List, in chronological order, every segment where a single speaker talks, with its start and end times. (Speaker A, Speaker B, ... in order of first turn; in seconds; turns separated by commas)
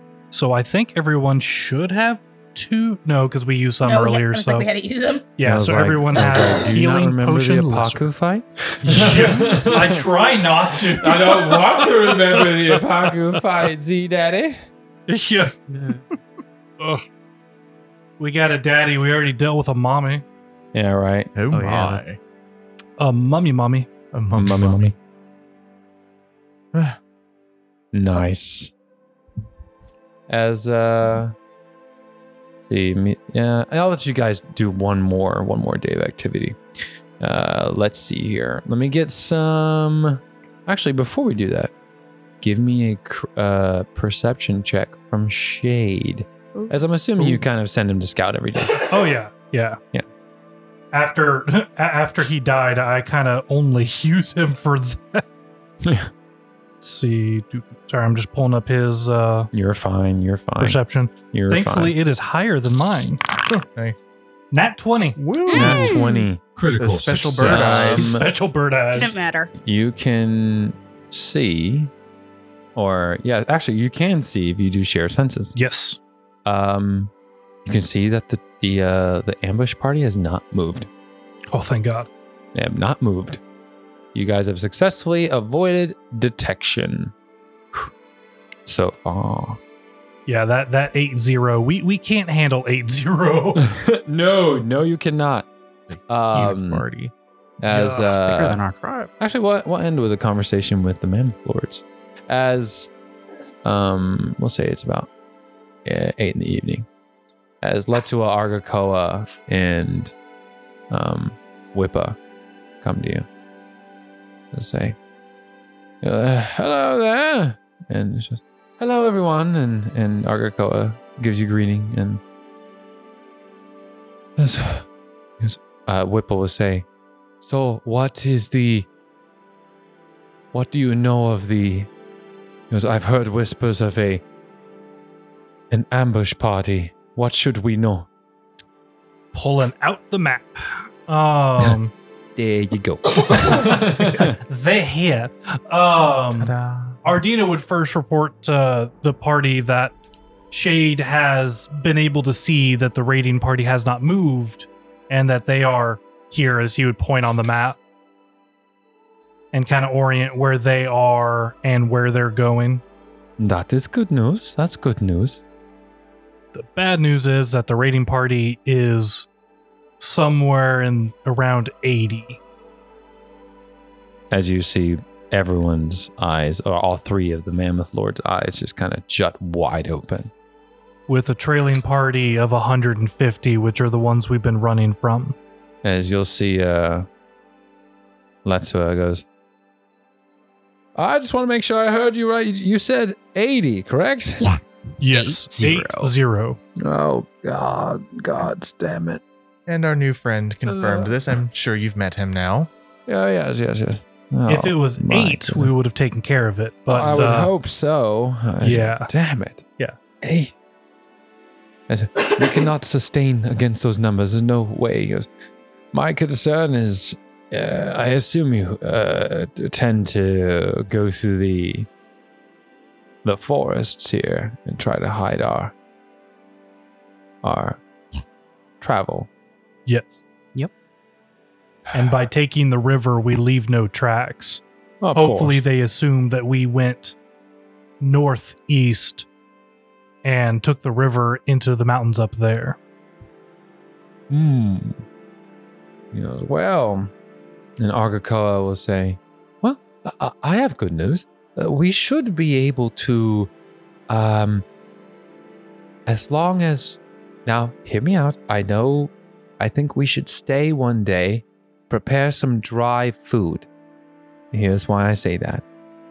Speaker A: 0.3-4.7, Speaker B: 3.8-5.3, Speaker A: 5.4-8.1, Speaker C: 5.4-10.1, Speaker A: 8.8-12.9, Speaker C: 11.0-14.6, Speaker A: 15.1-15.6, Speaker D: 15.7-16.0, Speaker A: 18.2-20.2, Speaker C: 20.7-21.3, Speaker E: 21.4-22.2, Speaker D: 21.5-22.0, Speaker A: 23.0-23.9, Speaker E: 24.1-24.8, Speaker C: 24.3-24.9, Speaker C: 27.9-28.7, Speaker C: 30.3-31.4, Speaker C: 32.7-36.6, Speaker C: 37.2-41.7, Speaker C: 42.4-48.8, Speaker A: 48.9-49.8, Speaker A: 50.9-55.2, Speaker C: 55.8-56.1, Speaker A: 56.8-59.5, Speaker C: 59.5-60.8, Speaker A: 60.6-63.2, Speaker C: 61.3-62.0, Speaker A: 64.5-65.2, Speaker E: 65.2-66.0, Speaker B: 65.5-66.1, Speaker C: 65.5-68.3, Speaker E: 66.8-68.3, Speaker A: 67.4-69.2, Speaker B: 69.0-69.5, Speaker C: 69.6-71.9, Speaker C: 72.8-75.5, Speaker A: 75.5-76.0, Speaker C: 76.5-77.1, Speaker C: 77.7-80.9, Speaker A: 81.5-82.1, Speaker C: 82.5-83.4, Speaker C: 84.1-87.1, Speaker C: 88.7-89.6, Speaker A: 90.3-93.7, Speaker C: 93.6-95.5, Speaker E: 95.9-97.1, Speaker C: 96.1-96.8, Speaker C: 97.6-98.6, Speaker A: 97.7-98.1, Speaker D: 98.1-99.1, Speaker C: 99.2-102.9, Speaker C: 103.7-105.1, Speaker C: 105.8-106.9, Speaker C: 107.6-110.1, Speaker C: 110.9-112.2, Speaker C: 112.8-113.3, Speaker C: 114.5-115.0, Speaker C: 116.0-122.2, Speaker C: 124.4-124.9, Speaker C: 125.4-126.9, Speaker C: 127.4-128.9, Speaker C: 130.5-131.9, Speaker C: 132.7-134.2, Speaker C: 135.7-138.1, Speaker A: 139.3-141.9, Speaker C: 142.4-144.4, Speaker A: 143.2-149.9, Speaker E: 146.4-147.0, Speaker A: 150.5-157.8, Speaker A: 159.5-162.8, Speaker C: 163.4-165.4, Speaker A: 166.5-169.3, Speaker A: 170.0-172.4, Speaker C: 174.3-180.3, Speaker A: 181.1-185.4, Speaker C: 185.8-187.1, Speaker C: 188.4-189.2, Speaker C: 191.0-194.5, Speaker A: 195.0-196.6, Speaker D: 195.1-196.1, Speaker C: 196.8-199.2, Speaker E: 199.7-202.7, Speaker C: 200.7-201.2, Speaker C: 203.1-205.7, Speaker A: 204.5-207.5, Speaker C: 206.9-209.7, Speaker A: 208.6-209.1, Speaker C: 210.2-210.5, Speaker C: 211.9-215.3, Speaker C: 215.9-221.9, Speaker C: 223.2-225.7, Speaker C: 227.4-227.8, Speaker C: 228.8-229.3, Speaker A: 229.9-230.2, Speaker A: 231.9-234.6, Speaker C: 235.0-235.6, Speaker A: 235.1-237.2, Speaker A: 238.0-239.3, Speaker A: 240.2-242.8, Speaker C: 244.3-245.0, Speaker C: 246.1-247.1, Speaker C: 247.8-253.5, Speaker C: 254.1-254.7, Speaker C: 256.1-263.7, Speaker C: 264.5-265.6